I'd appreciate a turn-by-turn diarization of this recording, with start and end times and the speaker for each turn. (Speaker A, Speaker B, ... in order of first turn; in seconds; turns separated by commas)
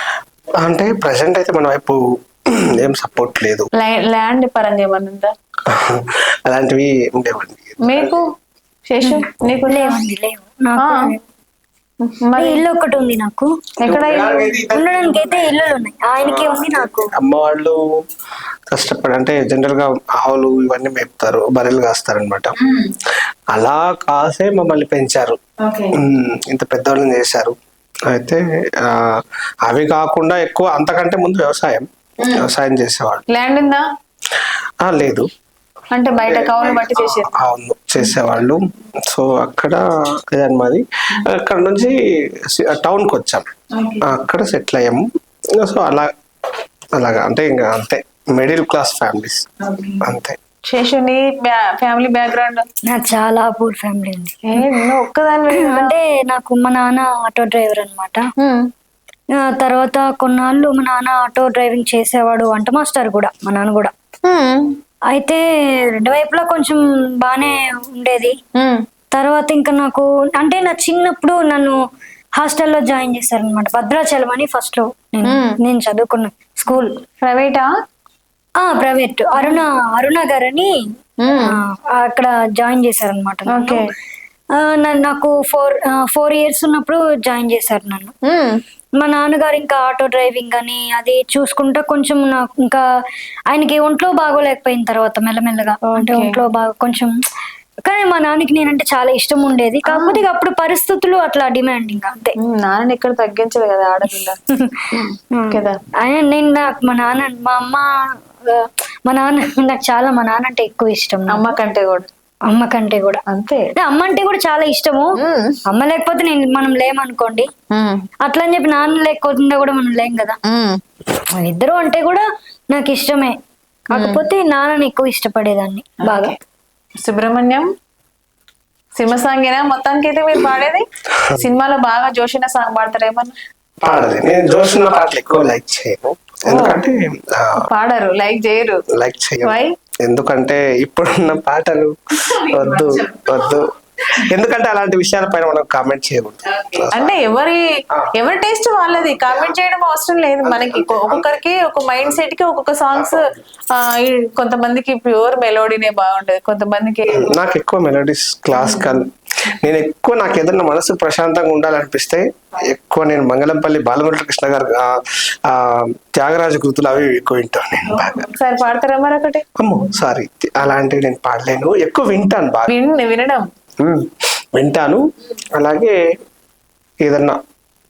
Speaker A: 0.6-2.0, Speaker A: 2.6-3.7, Speaker B: 3.8-5.3, Speaker A: 5.7-8.1, Speaker B: 7.8-8.2, Speaker B: 8.9-10.0, Speaker C: 9.0-11.2, Speaker B: 12.0-12.6, Speaker C: 12.4-13.5, Speaker B: 13.8-14.6, Speaker A: 13.8-17.8, Speaker C: 14.7-17.1, Speaker A: 18.7-22.5, Speaker B: 22.6-22.9, Speaker A: 23.5-25.4, Speaker B: 25.6-26.0, Speaker A: 26.0-27.5, Speaker A: 28.1-29.1, Speaker A: 29.6-33.2, Speaker B: 32.2-32.5, Speaker B: 33.3-33.8, Speaker A: 34.8-35.3, Speaker B: 35.9-37.4, Speaker A: 36.2-42.0, Speaker A: 42.5-43.5, Speaker B: 43.7-44.2, Speaker A: 44.0-45.0, Speaker A: 45.6-46.1, Speaker A: 47.0-49.5, Speaker B: 49.6-50.0, Speaker A: 50.0-50.4, Speaker B: 50.7-52.6, Speaker C: 52.9-54.6, Speaker B: 54.5-55.9, Speaker C: 55.5-58.2, Speaker B: 58.4-58.6, Speaker C: 59.4-63.9, Speaker B: 64.2-64.8, Speaker C: 65.1-68.3, Speaker B: 68.6-68.8, Speaker C: 69.1-71.8, Speaker C: 72.4-77.0, Speaker B: 75.3-75.5, Speaker B: 77.2-77.7, Speaker C: 78.6-80.7, Speaker B: 79.3-79.6, Speaker B: 81.2-81.5, Speaker C: 81.3-83.8, Speaker B: 83.5-83.8, Speaker C: 84.5-88.1, Speaker B: 88.2-88.6, Speaker C: 89.0-92.8, Speaker C: 93.5-97.2, Speaker B: 95.9-96.4, Speaker C: 97.8-102.3, Speaker B: 99.8-100.2, Speaker B: 102.4-104.4, Speaker C: 104.5-104.8, Speaker B: 104.9-105.8, Speaker C: 105.3-107.9, Speaker C: 108.5-111.5, Speaker B: 111.3-112.1, Speaker C: 112.5-113.2, Speaker B: 113.3-113.7, Speaker C: 113.7-115.1, Speaker B: 115.2-115.6, Speaker C: 115.7-117.5, Speaker B: 117.8-118.0, Speaker C: 118.2-120.4, Speaker B: 120.5-120.8, Speaker C: 121.3-123.3, Speaker C: 123.9-126.3, Speaker B: 123.9-124.2, Speaker B: 126.0-126.3, Speaker B: 127.0-127.7, Speaker B: 128.9-130.9, Speaker B: 131.4-133.3, Speaker A: 133.8-137.7, Speaker B: 136.5-136.8, Speaker B: 137.6-138.8, Speaker A: 138.9-141.9, Speaker B: 139.4-139.7, Speaker B: 142.3-143.6, Speaker A: 142.5-143.7, Speaker A: 144.2-147.2, Speaker B: 146.5-147.6, Speaker B: 148.2-153.2, Speaker A: 149.2-149.5, Speaker A: 150.4-151.4, Speaker A: 152.9-153.4, Speaker B: 153.7-157.3, Speaker A: 157.1-168.3, Speaker B: 158.5-159.0, Speaker B: 167.9-169.4, Speaker A: 169.6-172.7, Speaker B: 172.7-173.4, Speaker A: 173.8-175.0, Speaker A: 175.6-175.9, Speaker A: 177.0-177.4